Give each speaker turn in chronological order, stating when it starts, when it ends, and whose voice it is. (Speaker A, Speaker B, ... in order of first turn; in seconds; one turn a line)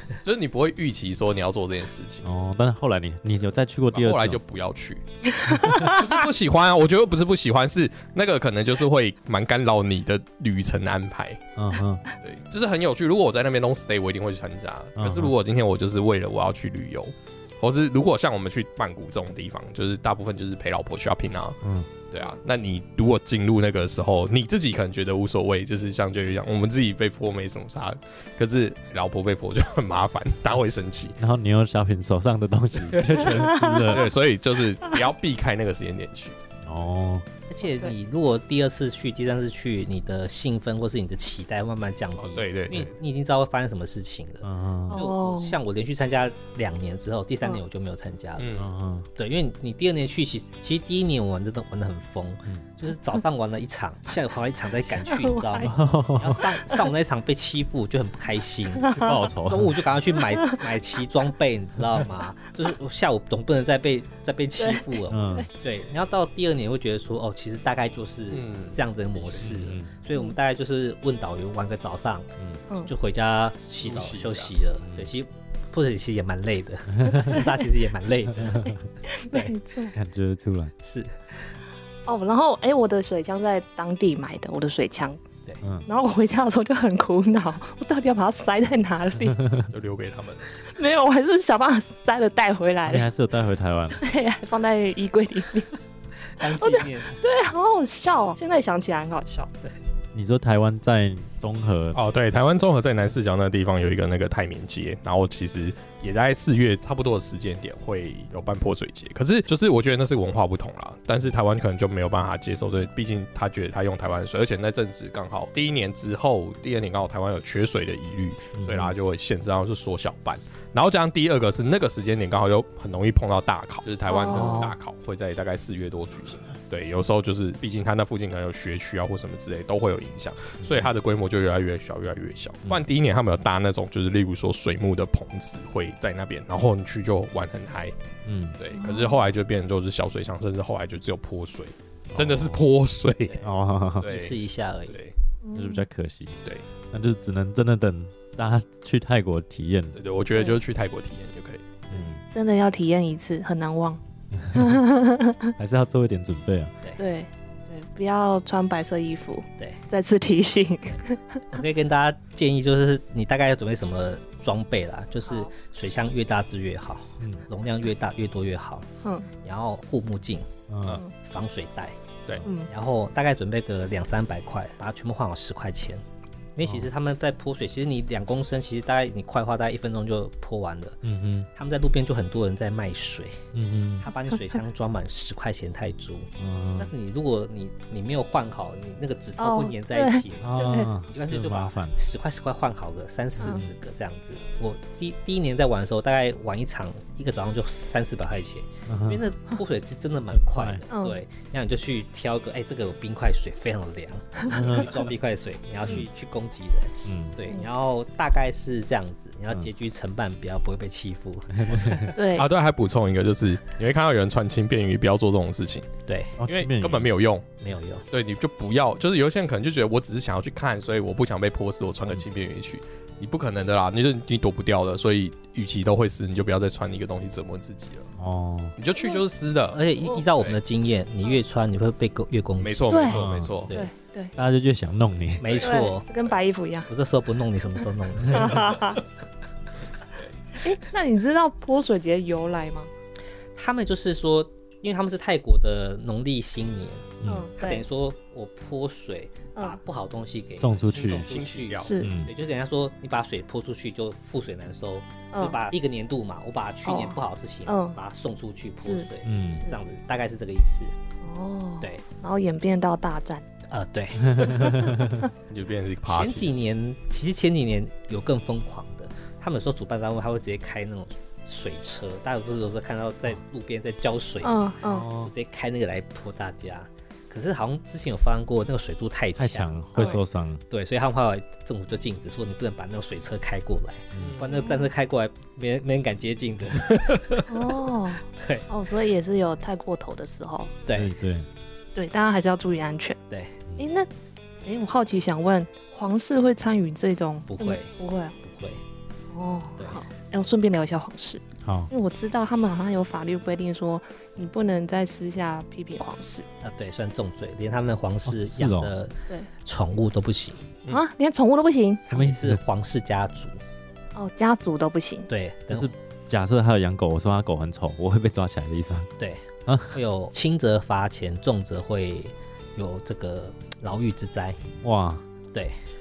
Speaker A: 0.2-2.2
Speaker B: 2.2-4.4
Speaker A: 3.9-11.4
Speaker C: 5.4-5.9
Speaker B: 5.5-5.9
Speaker B: 11.6-12.0
Speaker A: 12.2-21.6
Speaker B: 14.9-15.3
Speaker B: 21.6-21.9
Speaker A: 22.1-31.2
Speaker B: 31.2-34.1
Speaker A: 32.9-36.4
Speaker B: 36.6-37.2
Speaker D: 37.5-48.6
Speaker A: 42.2-42.9
Speaker B: 44.4-45.0
Speaker C: 44.9-45.6
Speaker A: 48.4-48.7
Speaker B: 48.6-49.1
Speaker D: 49.1-72.3
Speaker C: 54.9-55.7
Speaker B: 55.6-56.4
Speaker C: 56.4-56.8
Speaker C: 58.8-59.2
Speaker B: 58.9-59.8
Speaker C: 60.3-60.6
Speaker C: 64.6-65.5
Speaker B: 65.1-65.5
Speaker A: 68.3-69.5
Speaker B: 69.4-69.9
Speaker D: 72.8-78.7
Speaker A: 73.8-74.5
Speaker B: 74.8-75.1
Speaker C: 77.1-77.7
Speaker B: 78.3-78.7
Speaker C: 79.0-79.9
Speaker D: 79.3-79.5
Speaker B: 79.9-80.7
Speaker D: 80.8-81.5
Speaker C: 82.0-85.2
Speaker B: 85.6-85.9
Speaker C: 85.9-89.4
Speaker B: 89.4-89.7
Speaker A: 89.7-90.6
Speaker C: 90.6-93.1
Speaker B: 92.8-94.0
Speaker C: 93.9-95.7
Speaker D: 96.3-97.2
Speaker C: 96.5-99.5
Speaker B: 100.1-102.0
Speaker A: 101.9-137.9
Speaker B: 118.5-118.9
Speaker C: 124.0-124.7
Speaker B: 124.3-124.6
Speaker B: 130.6-130.9
Speaker B: 138.2-138.6
Speaker A: 138.6-143.4
Speaker C: 138.7-139.2
Speaker B: 142.1-142.6
Speaker B: 143.4-144.0
Speaker A: 144.0-144.4
Speaker D: 144.0-145.0
Speaker A: 144.9-145.1
Speaker C: 145.4-145.8
Speaker B: 145.5-146.4
Speaker B: 146.9-150.0
Speaker A: 149.9-151.7
Speaker C: 150.3-150.6
Speaker D: 151.9-152.1
Speaker B: 151.9-152.2
Speaker C: 152.3-154.0
Speaker B: 154.4-154.7
Speaker C: 154.5-155.5
Speaker B: 155.6-156.7
Speaker C: 157.0-161.4
Speaker D: 161.5-168.9
Speaker B: 167.2-167.4
Speaker C: 169.0-169.3
Speaker D: 169.4-170.5
Speaker B: 170.7-171.0
Speaker D: 171.2-176.0
Speaker D: 176.5-181.0
Speaker B: 181.0-181.5
Speaker D: 181.5-183.4
Speaker B: 183.5-184.1
Speaker D: 184.0-212.1
Speaker B: 186.4-186.9
Speaker C: 189.4-190.9
Speaker B: 190.4-192.0
Speaker C: 193.4-193.6
Speaker B: 198.9-199.2
Speaker B: 200.3-200.8
Speaker C: 200.9-201.2
Speaker B: 204.5-204.9
Speaker B: 207.0-207.4
Speaker B: 211.5-212.1
Speaker C: 212.2-212.5
Speaker A: 212.3-217.5
Speaker D: 216.1-216.4
Speaker B: 216.4-217.1
Speaker D: 217.6-218.0
Speaker A: 218.1-228.1
Speaker B: 228.2-228.7
Speaker A: 228.8-229.8
Speaker C: 228.9-229.2
Speaker D: 229.7-233.1
Speaker A: 232.6-233.7
Speaker C: 232.9-234.3
Speaker B: 233.1-233.7
Speaker B: 234.3-235.5
Speaker D: 235.4-236.2
Speaker C: 235.6-236.9
Speaker D: 236.9-238.9
Speaker C: 238.3-239.0
Speaker C: 240.6-242.9
Speaker D: 243.5-260.9
Speaker B: 247.2-247.5
Speaker C: 247.2-247.8
Speaker B: 250.6-251.3
Speaker A: 250.9-251.9
Speaker C: 251.8-252.1
Speaker B: 252.0-252.3
Speaker C: 255.3-255.6
Speaker C: 256.8-258.0
Speaker C: 258.8-259.1
Speaker B: 259.2-259.7
Speaker C: 261.2-263.4
Speaker D: 263.7-264.9
Speaker B: 264.3-265.2
Speaker C: 264.6-265.3
Speaker A: 265.5-266.5
Speaker D: 266.0-287.7
Speaker C: 274.4-275.1
Speaker B: 274.8-275.3
Speaker B: 279.4-280.6
Speaker C: 279.9-280.2
Speaker A: 284.2-284.6
Speaker C: 284.5-284.9
Speaker C: 287.5-290.7
Speaker D: 288.3-288.7
Speaker D: 290.9-291.1
Speaker B: 290.9-291.5
Speaker C: 291.9-293.2
Speaker D: 293.3-293.6
Speaker C: 293.8-294.1
Speaker C: 294.6-298.3
Speaker D: 297.5-298.8
Speaker C: 299.3-306.4
Speaker D: 299.8-300.0
Speaker B: 301.6-301.9
Speaker D: 306.6-310.6
Speaker B: 308.2-308.9
Speaker C: 310.9-312.0
Speaker D: 312.1-313.6
Speaker B: 312.1-312.6
Speaker C: 314.1-315.3
Speaker D: 315.3-315.9
Speaker B: 315.7-319.1
Speaker D: 319.2-324.6
Speaker B: 319.7-320.0
Speaker B: 324.8-325.2